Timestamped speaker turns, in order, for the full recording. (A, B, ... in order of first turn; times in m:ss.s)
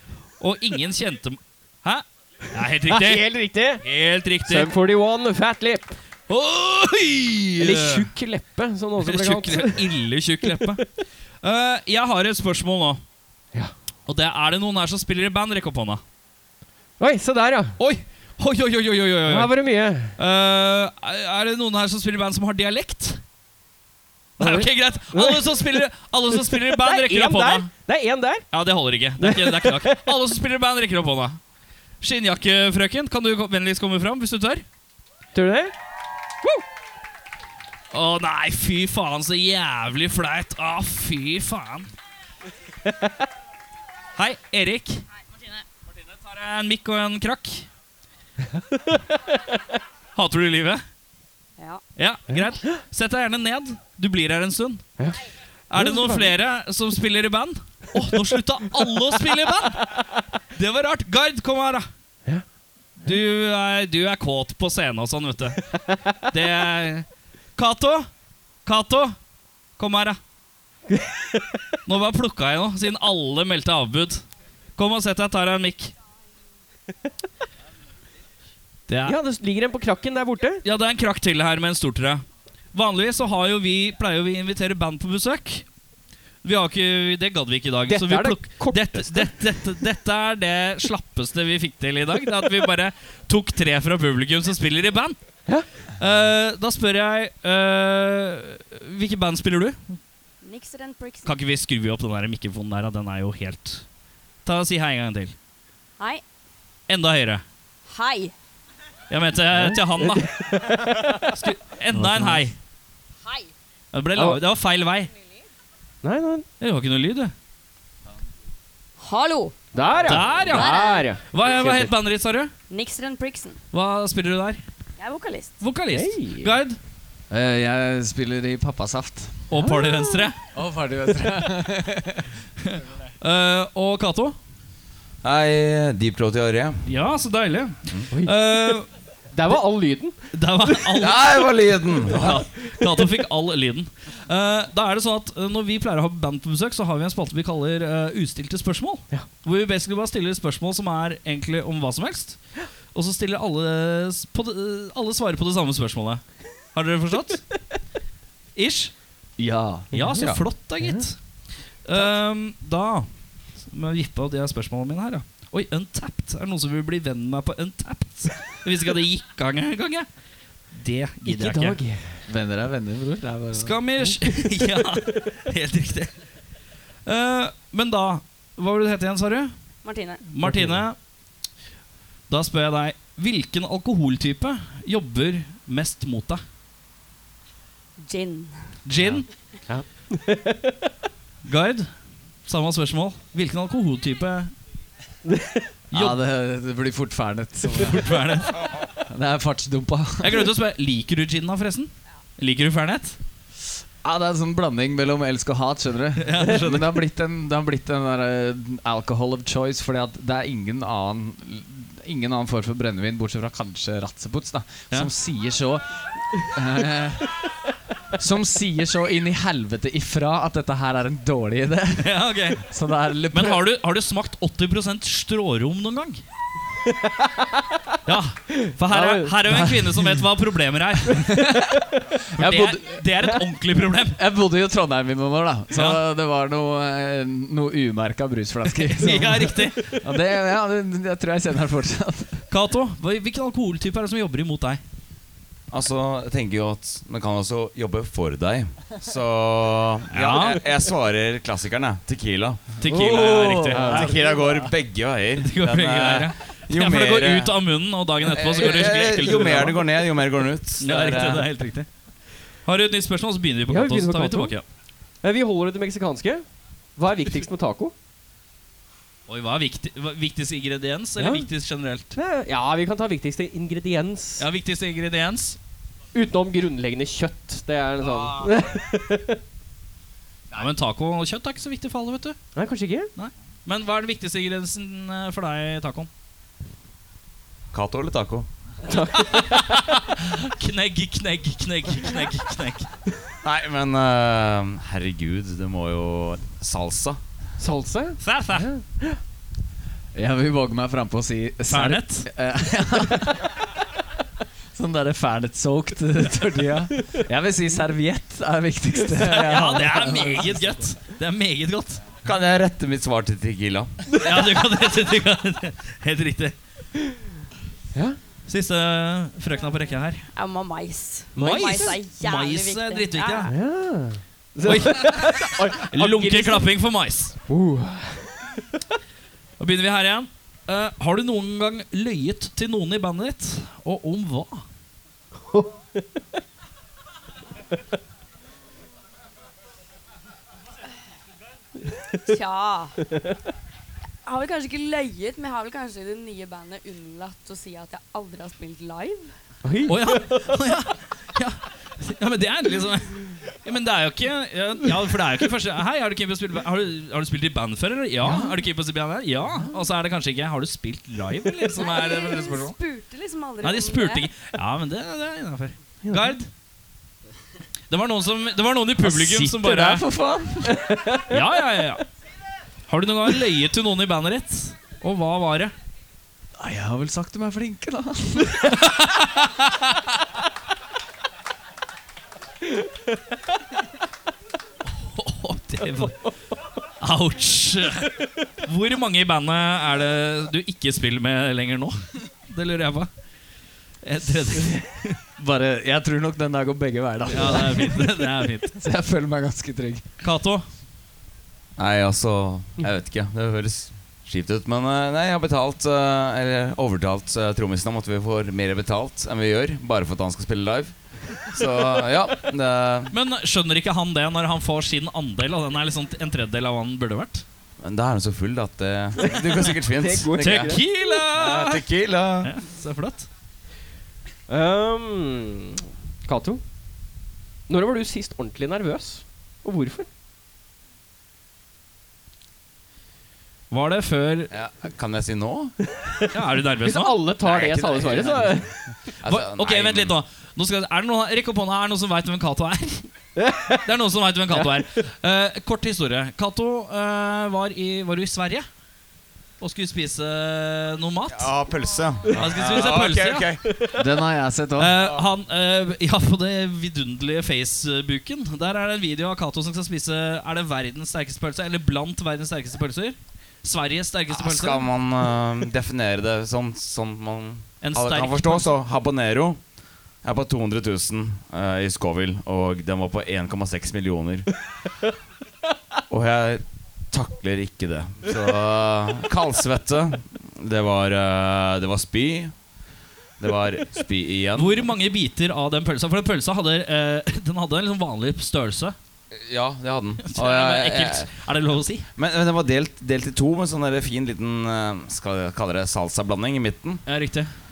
0:00.4-0:03.3 A
0:02.8-0:03.8 B
0:03.8-0:04.7 A
0:04.5-0:06.0 B
0:06.3-0:08.1 A
0:07.6-0:09.9 B
0:09.0-0:10.8 A
0:10.4-0:10.7 B
0:11.4-0:13.0 A
0:14.1-0:16.0 A
0:17.0-0:17.8 B
0:17.8-0:19.5 A
0:19.3-0:20.1 B
0:20.2-0:23.2 A
0:24.4-0:27.7 A
0:24.4-0:25.8 B
0:26.3-0:28.4 B
0:28.5-0:31.4 A
0:29.2-0:30.2 B
0:32.0-0:34.6 A
0:35.3-0:35.7 B
0:37.9-0:41.9 A
0:44.2-0:45.0 A
0:46.2-0:47.7 A
0:48.5-0:49.2 B
0:50.1-0:50.8 A
0:52.0-0:54.8 A
0:55.7-1:01.9 A
0:55.8-0:56.3 B
1:03.0-1:08.1 A
1:08.6-1:09.2 A
1:09.8-1:10.2 A
1:10.9-1:11.6 B
1:11.8-1:14.2 A
1:14.8-1:15.9 A
1:18.9-1:19.2 A
1:19.0-1:20.6 B
1:20.6-1:22.2 A
1:22.7-1:25.6 A
1:26.4-1:35.2 A
1:27.9-1:29.3 B
1:36.0-1:39.9 A
1:40.4-1:41.3 C
1:41.2-1:43.8 A
1:44.4-1:45.3 A
1:46.9-1:47.4 A
1:47.9-1:48.3 C
1:49.1-1:52.6 A
1:49.5-1:51.4 B
1:51.9-1:52.4 D
1:53.9-1:55.1 A
1:56.0-1:56.4 B
1:56.6-1:57.3 A
1:59.0-1:59.5 C
1:59.7-2:01.9 B
2:00.0-2:02.5 A
2:00.4-2:01.1 C
2:02.7-2:03.6 C
2:03.7-2:04.6 A
2:05.0-2:05.5 C
2:05.6-2:06.8 A
2:05.9-2:06.6 B
2:07.3-2:09.4 D
2:09.5-2:10.4 A
2:09.5-2:10.3 B
2:10.5-2:12.3 D
2:12.6-2:14.4 A
2:15.2-2:16.8 E
2:16.8-2:18.8 A
2:18.1-2:18.8 B
2:19.3-2:20.3 B
2:20.3-2:32.4 A
2:20.9-2:22.4 E
2:32.9-2:36.2 A
2:36.7-2:37.4 A
2:38.6-2:38.9 A
2:39.4-2:40.4 D
2:39.9-2:40.3 B
2:39.9-2:41.2 A
2:40.8-2:41.0 B
2:41.8-2:43.1 A
2:43.6-2:50.1 A
2:50.7-2:51.8 A
2:51.2-2:52.1 B
2:52.3-2:53.8 D
2:53.5-2:56.1 A
2:57.0-2:59.5 A
2:59.8-3:00.2 C
3:00.3-3:01.0 A
3:00.4-3:00.8 B
3:02.3-3:06.4 A
3:08.0-3:08.6 C
3:08.8-3:09.2 A
3:09.7-3:10.8 B
3:11.4-3:11.9 A
3:12.5-3:14.5 A
3:15.2-3:15.7 B
3:15.9-3:16.2 A
3:15.9-3:20.5 D
3:17.7-3:18.7 A
3:20.2-3:23.2 A
3:24.0-3:37.3 D
3:26.2-3:27.0 A
3:38.1-3:43.6 D
3:42.0-3:42.6 A
3:43.3-3:46.2 A
3:46.8-3:47.9 B
3:48.0-3:51.5 A
3:48.9-3:50.3 D
3:51.1-3:53.0 D
3:51.6-3:52.1 B
3:52.2-3:54.2 A
3:54.1-4:02.4 D
3:55.7-3:56.0 A
3:58.9-4:00.0 A
4:02.5-4:04.8 A
4:05.7-4:12.7 E
4:10.1-4:10.6 A
4:12.8-4:14.3 A
4:12.8-4:14.1 D
4:12.9-4:13.2 B
4:13.7-4:17.5 E
4:13.8-4:14.0 B
4:15.4-4:19.9 A
4:18.2-4:21.5 E
4:20.8-4:21.9 A
4:22.6-4:24.6 A
4:23.7-4:24.5 B
4:25.2-4:26.4 B
4:27.0-4:27.9 B
4:29.3-4:32.1 A
4:31.2-4:31.5 B
4:32.1-4:34.4 B
4:34.4-4:35.6 A
4:36.1-4:39.4 B
4:38.2-4:38.5 A
4:40.5-4:42.4 A
4:42.6-4:43.1 B
4:43.2-4:46.1 A
4:47.7-4:48.5 E
4:48.8-4:49.9 B
4:49.3-4:52.9 A
4:53.4-4:57.2 E
4:57.6-4:59.2 B
4:58.2-4:58.7 A
5:00.1-5:03.6 D
5:01.7-5:02.3 A
5:04.7-5:10.8 D
5:09.1-5:12.0 A
5:12.2-5:14.0 E
5:14.1-5:16.6 A
5:18.5-5:20.2 A
5:20.3-5:23.5 C
5:21.4-5:22.0 B
5:21.4-5:23.5 A
5:23.5-5:26.7 B
5:24.6-5:27.4 A
5:27.5-5:28.8 B
5:29.6-5:34.6 A
5:35.5-5:36.0 B
5:42.2-5:43.0 C
5:44.2-5:49.3 C
5:49.6-5:50.4 B
5:49.9-6:02.7 A
5:58.2-5:58.5 D
6:01.7-6:04.3 C
6:03.6-6:06.5 A
6:06.0-6:06.3 B
6:07.9-6:10.0 A
6:09.0-6:10.9 D
6:10.7-6:11.5 B
6:11.3-6:12.0 A
6:12.9-6:15.7 A
6:16.6-6:18.8 D
6:18.7-6:19.8 A
6:24.9-6:26.2 A
6:27.0-6:32.0 A
6:32.5-6:33.1 A
6:34.0-6:35.2 A
6:35.4-6:40.0 D
6:37.3-6:38.8 A
6:40.2-6:40.6 A
6:41.8-6:53.1 E
6:53.1-6:57.4 A
6:57.8-7:00.4 E
6:59.2-7:00.9 B
7:00.4-7:01.9 A
7:01.3-7:02.5 E
7:02.4-7:03.3 A
7:04.5-7:06.6 B
7:07.7-7:10.1 B
7:13.7-7:14.5 A
7:14.5-7:15.7 E
7:15.9-7:18.7 B
7:16.3-7:17.2 A
7:17.4-7:18.6 E
7:19.2-7:20.2 E
7:19.2-7:23.1 A
7:23.4-7:23.8 B
7:23.8-7:28.6 A
7:29.6-7:31.5 A
7:31.3-7:33.6 E
7:32.3-7:33.5 A
7:33.9-7:35.0 D
7:34.8-7:44.9 A
7:44.3-7:49.6 E
7:47.8-7:48.7 A
7:50.2-7:54.5 E
7:56.1-8:02.5 E
8:03.4-8:04.9 E
8:04.5-8:09.0 A
8:09.3-8:11.3 E
8:10.2-8:12.1 A
8:12.2-8:17.0 E
8:17.0-8:17.5 A